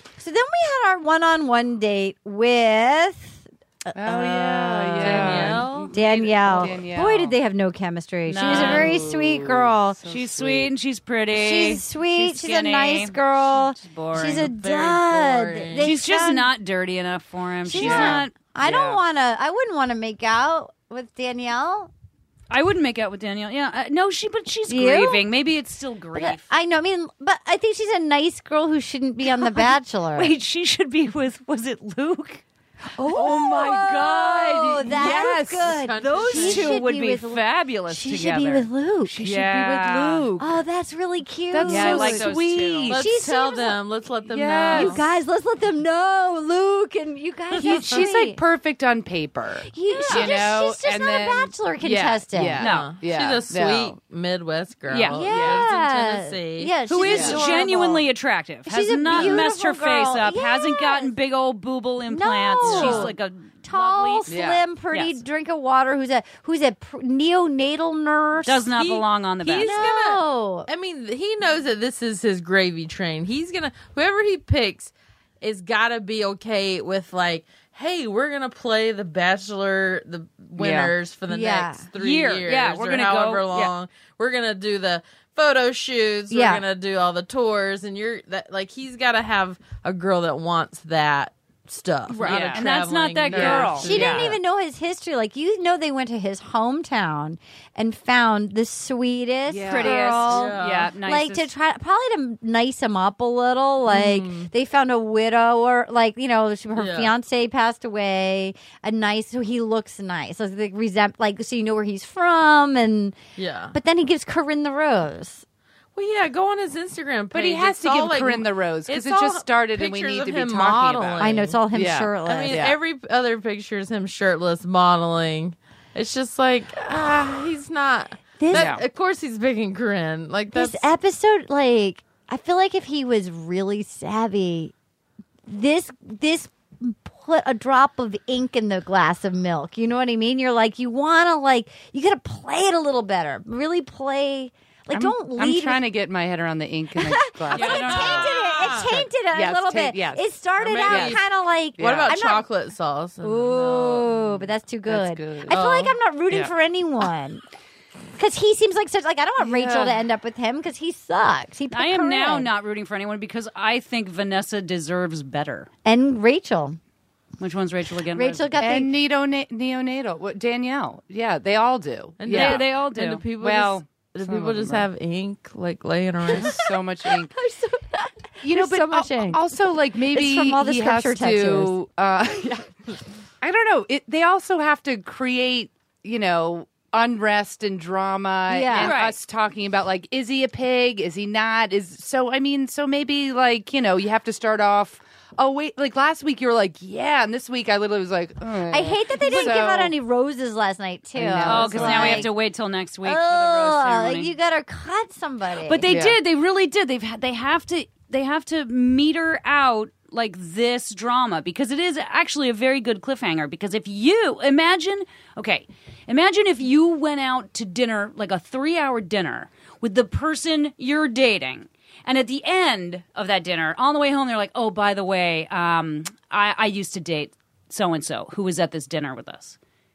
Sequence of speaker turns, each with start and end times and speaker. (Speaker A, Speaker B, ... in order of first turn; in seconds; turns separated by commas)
Speaker A: 0.2-10.0, Speaker B: 3.9-7.3, Speaker C: 5.0-6.7, Speaker D: 8.3-9.0, Speaker B: 8.4-10.7, Speaker D: 10.1-14.5, Speaker A: 11.3-16.5, Speaker C: 14.2-15.9, Speaker D: 15.8-18.3, Speaker A: 17.6-21.9, Speaker B: 17.7-19.0, Speaker D: 22.5-26.4, Speaker A: 24.7-25.2, Speaker A: 26.1-30.3, Speaker D: 29.4-32.4, Speaker B: 33.0-36.2, Speaker A: 33.0-39.2, Speaker D: 35.0-35.2, Speaker C: 35.1-36.7, Speaker D: 36.1-40.3, Speaker B: 39.2-40.6, Speaker A: 40.4-42.3, Speaker B: 41.5-43.0, Speaker D: 41.6-43.0, Speaker C: 42.9-45.0, Speaker A: 42.9-43.8, Speaker B: 44.3-45.0, Speaker A: 44.7-48.4, Speaker B: 47.6-53.9, Speaker A: 49.7-52.6, Speaker D: 49.9-50.4, Speaker D: 52.6-53.0, Speaker C: 52.6-57.4, Speaker D: 54.9-55.3, Speaker A: 55.1-58.0, Speaker B: 55.2-55.6, Speaker D: 56.9-65.2, Speaker B: 57.0-58.0, Speaker A: 58.6-61.1, Speaker B: 59.1-59.5, Speaker A: 62.1-69.0, Speaker B: 62.6-63.1, Speaker B: 64.3-64.6, Speaker D: 68.4-69.8, Speaker C: 69.4-94.4, Speaker A: 69.6-70.7, Speaker B: 80.6-80.9, Speaker A: 81.3-81.9, Speaker D: 82.0-83.7, Speaker A: 86.3-86.6, Speaker D: 92.1-94.3, Speaker B: 92.2-93.8, Speaker A: 93.3-113.2, Speaker B: 99.5-100.2, Speaker D: 99.7-101.5, Speaker C: 100.3-100.9, Speaker C: 103.9-104.5, Speaker C: 106.7-107.1, Speaker C: 113.3-113.7, Speaker A: 113.7-115.4, Speaker C: 116.0-121.6, Speaker B: 117.3-122.8, Speaker A: 121.2-122.6, Speaker C: 122.2-130.9, Speaker A: 128.4-128.7, Speaker B: 128.5-128.8, Speaker A: 130.5-134.7, Speaker A: 135.5-145.8, Speaker B: 144.9-148.3, Speaker A: 147.0-152.4, Speaker D: 147.5-148.3, Speaker C: 147.9-149.0, Speaker B: 148.9-150.2, Speaker C: 150.6-151.2, Speaker B: 150.8-151.2, Speaker B: 151.8-152.1, Speaker C: 151.8-154.1, Speaker A: 153.2-157.4, Speaker B: 154.9-155.6, Speaker C: 155.5-155.9, Speaker A: 158.2-162.5, Speaker B: 159.4-160.0, Speaker D: 161.7-165.7, Speaker A: 165.8-166.8, Speaker D: 167.4-168.6, Speaker A: 168.1-168.9, Speaker B: 168.6-172.7, Speaker C: 172.2-176.6, Speaker D: 172.3-173.3, Speaker B: 173.4-174.9, Speaker B: 176.3-177.3, Speaker A: 177.1-179.4, Speaker B: 178.4-182.7, Speaker A: 180.0-181.7, Speaker B: 183.4-199.9, Speaker A: 188.5-189.0, Speaker D: 188.8-189.2, Speaker A: 198.7-202.3, Speaker D: 199.2-199.6, Speaker B: 201.2-202.3, Speaker D: 201.4-204.3, Speaker A: 203.0-205.9, Speaker D: 205.6-229.6, Speaker B: 205.8-206.2